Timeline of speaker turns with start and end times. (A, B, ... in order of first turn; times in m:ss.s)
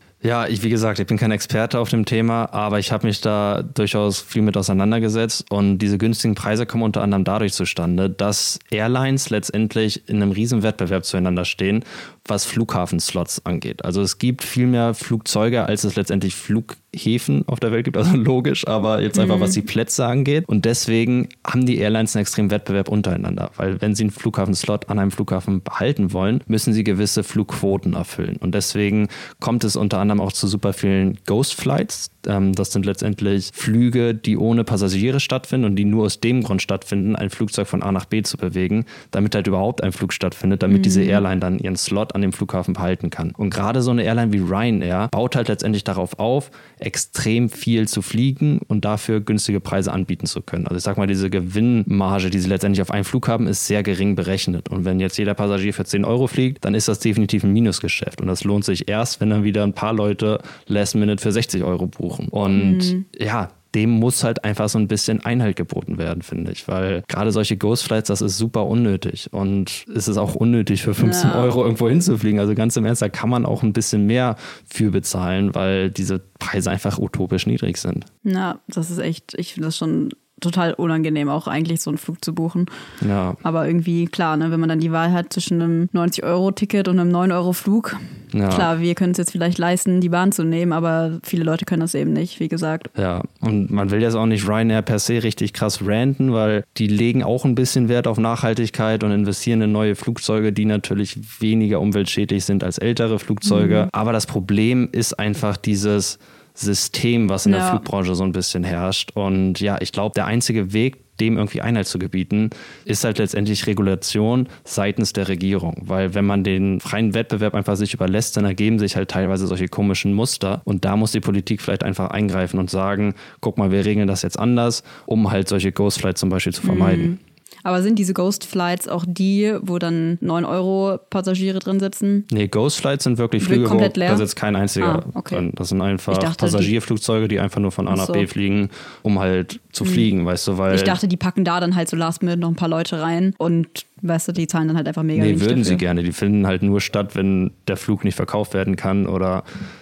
0:00.2-1:18.1 A
0:19.1-0:19.6 B
0:40.7-0:41.2 B
1:02.5-1:03.1 B
1:11.0-1:11.5 B
1:18.2-1:22.7 B
1:23.0-1:23.4 A
1:23.4-1:32.9 B
1:28.3-1:28.7 A
1:33.0-2:07.2 A
1:43.4-1:43.9 B
1:47.4-1:47.8 B
2:06.6-2:12.3 B
2:12.3-2:21.0 A
2:13.4-2:14.3 B
2:14.8-2:15.5 B
2:16.1-2:16.7 B
2:17.9-2:18.3 B
2:19.8-2:20.1 B
2:20.7-2:25.8 B
2:25.2-2:29.4 A